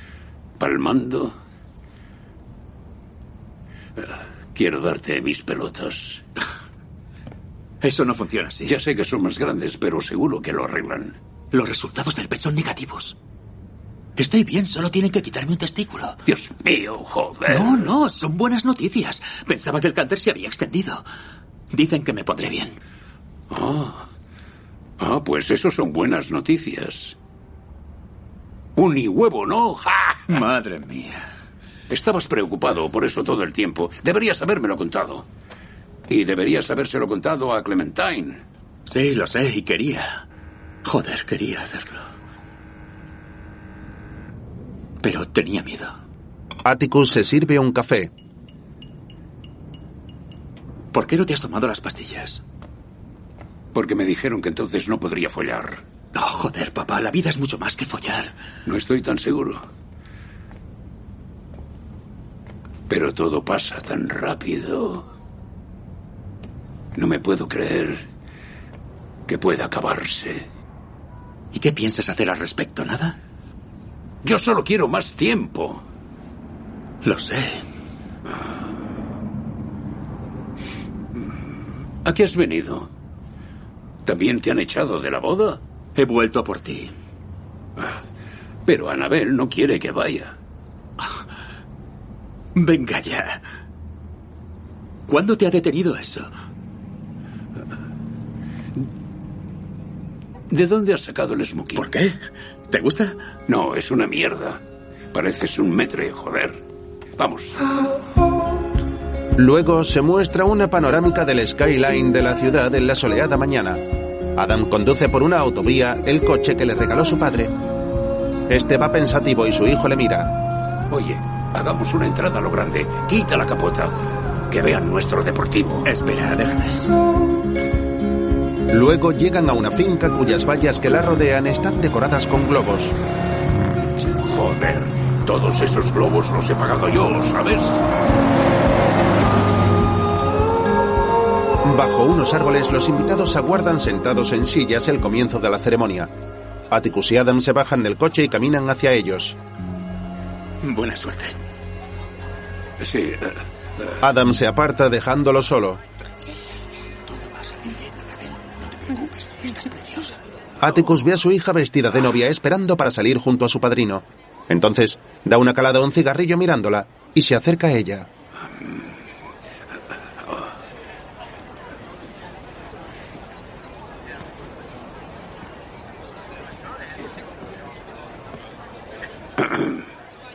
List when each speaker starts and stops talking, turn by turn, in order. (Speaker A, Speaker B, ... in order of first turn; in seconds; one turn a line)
Speaker A: 0.6-1.3
Speaker A: 4.0-6.2
Speaker B: 7.8-8.8
Speaker A: 8.7-11.2
Speaker B: 11.5-13.2
Speaker B: 14.2-16.2
Speaker A: 16.2-17.9
Speaker B: 17.5-21.0
Speaker B: 21.7-22.8
Speaker A: 23.5-24.0
Speaker A: 25.0-27.1
Speaker A: 28.8-30.3
Speaker B: 30.3-31.3
Speaker A: 31.9-35.2
Speaker A: 36.1-38.4
Speaker B: 38.9-40.2
Speaker B: 40.8-42.0
Speaker B: 45.0-46.0
Speaker C: 46.6-48.1
Speaker B: 50.9-52.4
Speaker A: 53.7-55.8
Speaker B: 56.1-58.3
Speaker A: 58.6-59.6
Speaker A: 62.9-65.0
Speaker A: 66.9-68.0
Speaker A: 69.3-70.5
Speaker B: 71.5-73.2
Speaker A: 74.2-75.8
Speaker B: 77.0-77.6
Speaker A: 82.0-82.9
Speaker A: 84.0-85.6
Speaker B: 86.0-86.9
Speaker A: 88.7-90.3
Speaker B: 92.5-93.4
Speaker B: 95.1-96.3
Speaker A: 100.5-101.9
Speaker B: 101.7-102.2
Speaker B: 102.7-103.2
Speaker A: 103.5-104.6
Speaker A: 105.1-106.6
Speaker A: 107.2-107.6
Speaker C: 109.4-113.8
Speaker C: 114.3-117.5
Speaker C: 118.5-120.3
Speaker A: 120.9-124.0
Speaker A: 124.5-125.8
Speaker B: 125.8-126.9
Speaker C: 128.7-132.9
Speaker A: 134.2-137.8
Speaker C: 141.6-146.1
Speaker C: 146.7-149.4
Speaker B: 150.6-151.4
Speaker A: 152.8-153.9
Speaker C: 154.0-155.8
Speaker B: 157.1-160.2
Speaker C: 160.6-168.1
Speaker A: 179.4-179.8